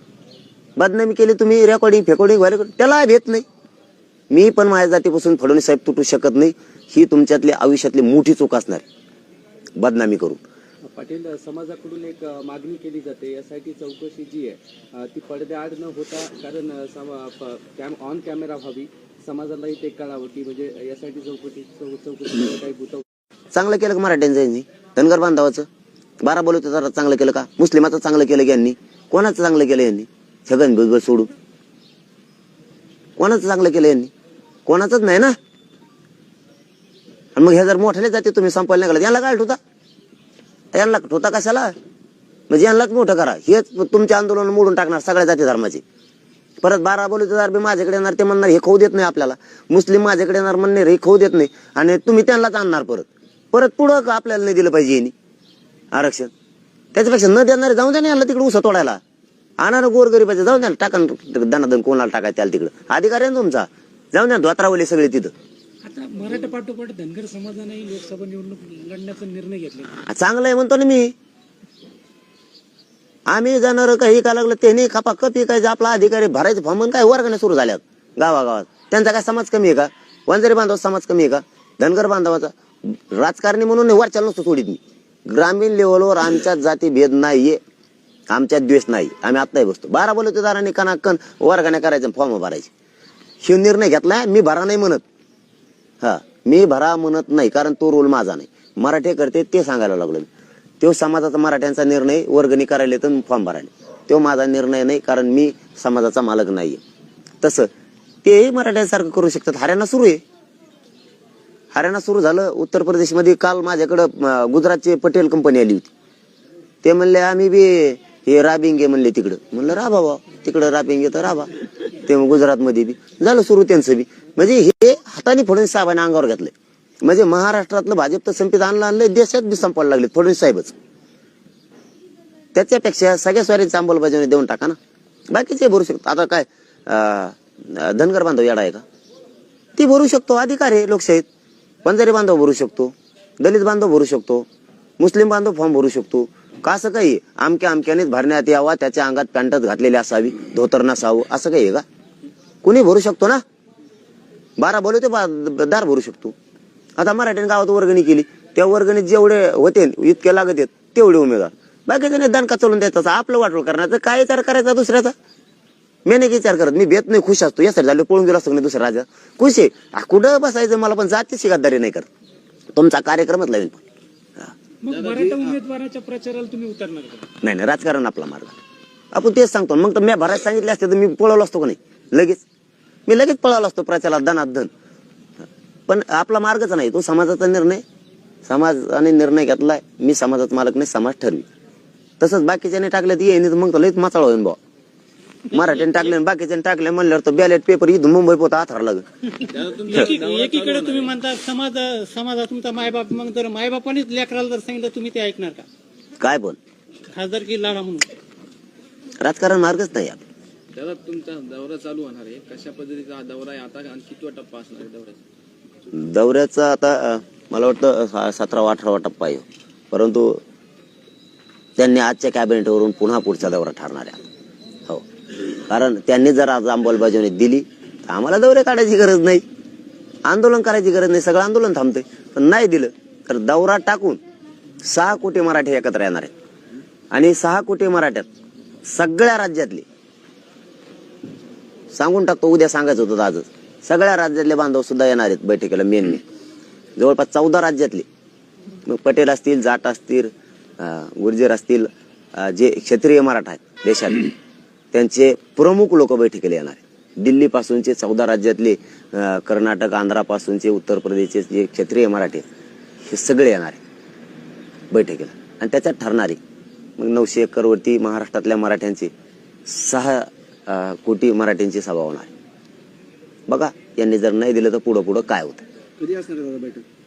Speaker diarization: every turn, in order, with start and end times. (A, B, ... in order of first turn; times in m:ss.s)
0:00.8-0:03.4 A
0:04.3-0:08.9 A
0:09.8-0:10.4 A
0:10.9-0:23.0 B
0:23.5-0:25.7 A
0:26.2-0:31.3 A
0:33.2-0:34.1 A
0:34.6-0:35.4 A
0:37.4-0:39.6 A
0:40.7-0:41.7 A
0:42.5-0:45.8 A
0:46.6-0:55.1 A
0:55.9-0:56.3 A
0:56.9-0:59.0 A
0:59.6-1:05.3 A
1:05.8-1:10.0 C
1:10.1-1:11.1 A
1:13.3-1:27.6 A
1:28.3-1:32.7 A
1:33.4-1:35.0 A
1:36.0-1:40.3 A
1:40.8-1:46.8 A
1:47.4-1:47.7 A
1:48.2-1:50.2 A
1:51.7-1:55.9 A
1:56.8-2:01.5 A
2:02.0-2:10.7 A
2:12.5-2:14.8 A
2:15.3-2:18.8 A
2:19.8-2:21.2 A
2:21.8-2:24.4 A
2:25.0-2:31.8 A
2:32.6-2:33.4 A
2:34.6-2:36.3 A
2:37.0-2:45.1 A
2:46.0-2:52.1 A
2:52.7-2:53.8 A
2:54.8-2:57.3 C
2:54.9-2:55.3 D
2:57.4-2:58.5 A
2:59.1-3:02.4 A
3:03.1-3:04.7 A
3:05.9-3:07.8 A
3:08.4-3:11.4 A
3:12.2-3:14.6 A
3:15.5-3:19.0 A
3:19.4-3:25.6 E
3:19.5-3:21.2 D
3:26.2-3:26.6 A
3:27.1-3:28.1 E
3:29.2-3:30.2 A
3:30.7-3:35.2 D
3:35.9-3:40.4 A
3:41.8-3:44.2 A
3:45.7-3:49.4 A
3:50.2-3:54.2 A
3:54.8-3:56.3 A
3:57.1-3:58.3 A
3:58.9-3:59.8 A
4:01.9-4:06.2 A
4:07.0-4:08.1 A
4:08.9-4:14.3 A
4:14.9-4:22.4 A
4:23.1-4:23.8 A
4:24.9-4:26.4 A
4:27.0-4:29.1 A
4:29.6-4:32.3 A
4:33.5-4:35.6 A
4:36.0-4:36.8 B